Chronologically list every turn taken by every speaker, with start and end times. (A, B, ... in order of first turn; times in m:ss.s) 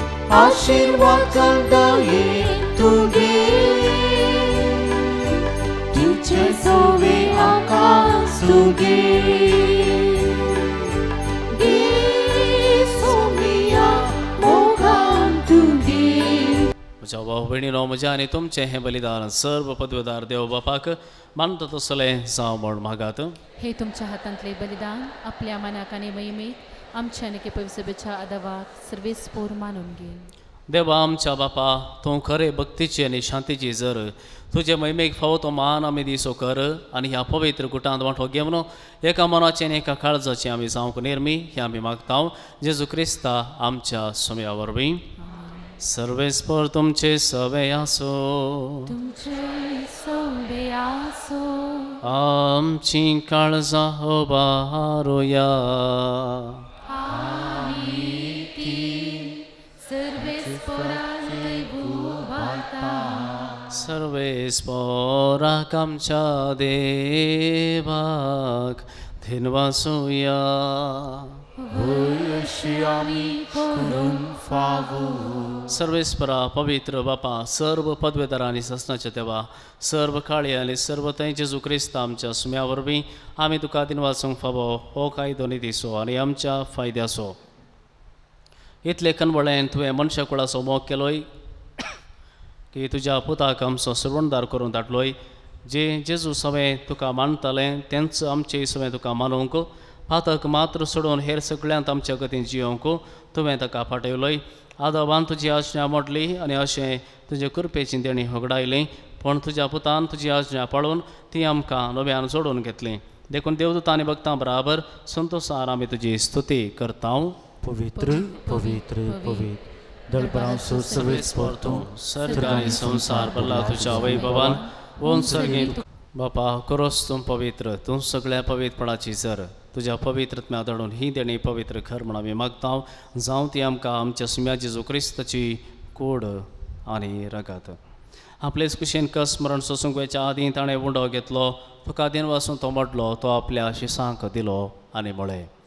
0:00.3-0:05.1 A
0:05.9-0:10.8 A
0:11.5-0:16.6 A
0:17.0-0:23.4 B
0:23.6-0:30.3 C
0:30.7-0:45.0 B
0:45.2-0:45.7 C
0:45.8-0:48.9 B
0:48.9-0:52.0 C
0:52.0-0:56.6 B
0:56.9-1:03.3 C
0:57.0-0:59.4 A
1:00.2-1:03.8 A
1:03.7-1:11.3 B
1:11.6-1:14.3 C
1:11.7-1:15.7 A
1:15.7-1:27.4 B
1:28.8-1:31.2 B
1:32.7-1:57.4 B
1:57.6-2:04.7 A
1:57.9-1:59.5 C
2:00.1-2:01.5 C
2:00.9-2:17.8 B
2:02.2-2:05.8 C
2:05.2-2:05.7 A
2:18.4-2:25.5 B